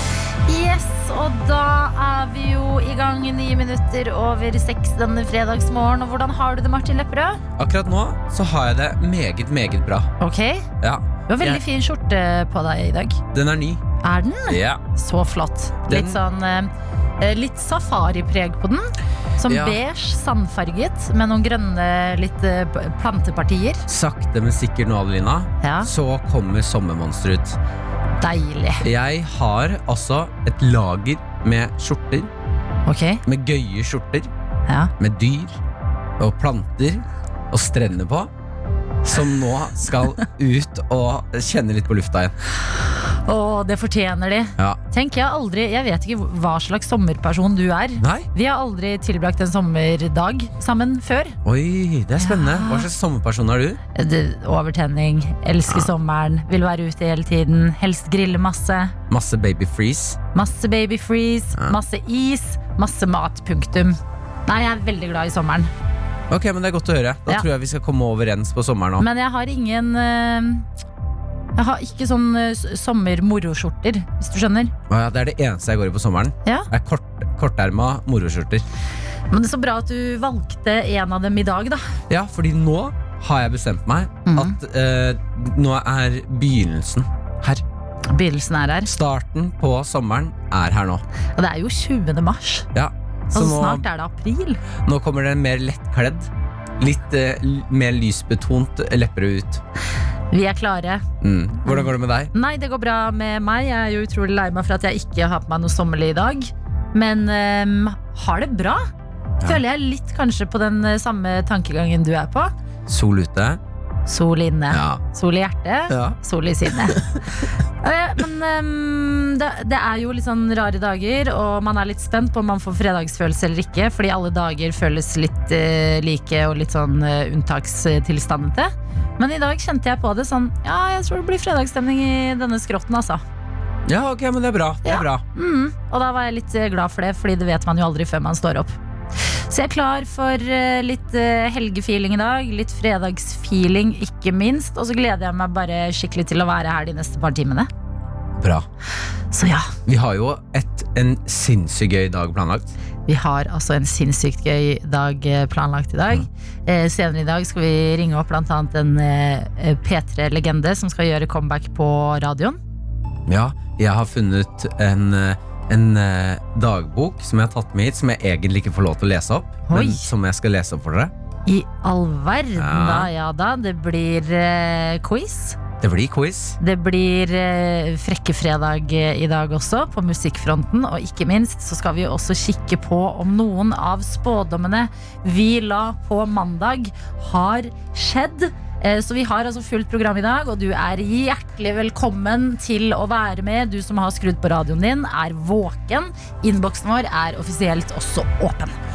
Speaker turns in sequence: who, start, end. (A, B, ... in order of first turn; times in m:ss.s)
0:00.5-0:07.4 A
0:07.6-0:10.1 B
0:10.2-0:10.7 A
0:10.8-0:11.6 B
0:11.3-0:13.2 A
0:13.3-0:13.8 B
0:14.0-0:23.9 A
0:14.5-0:14.8 B
0:15.9-0:16.2 B
0:19.5-0:19.8 B
0:23.9-0:27.6 B
0:25.6-0:25.9 A
0:28.2-0:28.8 A
0:28.8-0:32.3 B
0:32.9-0:33.2 A
0:33.2-0:34.3 B
0:35.0-0:35.6 B
0:36.2-0:38.3 B
0:39.0-0:42.3 B
0:43.2-0:51.4 A
0:48.0-0:48.3 B
0:51.4-0:53.8 B
0:52.2-0:52.9 A
0:53.9-0:58.9 A
0:55.7-0:55.9 B
0:59.1-1:00.2 B
1:00.3-1:05.7 A
1:06.3-1:09.1 B
1:09.0-1:10.7 A
1:11.6-1:14.7 A
1:14.9-1:18.6 B
1:19.3-1:21.8 A
1:22.1-1:27.6 B
1:24.2-1:24.6 A
1:28.1-1:28.9 A
1:28.8-1:31.0 B
1:31.4-1:32.7 A
1:32.7-1:33.8 B
1:33.3-1:34.6 A
1:34.8-1:39.6 B
1:40.3-1:41.0 A
1:41.2-1:42.3 B
1:41.6-1:48.8 A
1:49.4-1:52.5 A
1:52.9-1:53.6 B
1:54.1-2:13.2 A
1:54.7-1:55.0 B
1:55.9-1:56.2 B
2:13.9-2:15.2 B
2:14.8-2:18.7 A
2:19.5-2:27.7 A
2:28.4-2:28.7 B
2:29.3-2:29.7 A
2:29.8-2:32.7 B
2:33.1-2:42.6 A
2:43.3-2:51.1 B
2:49.7-2:50.0 A
2:51.5-2:55.6 A
2:52.6-2:53.1 B
2:55.8-2:56.6 B
2:56.6-3:18.8 A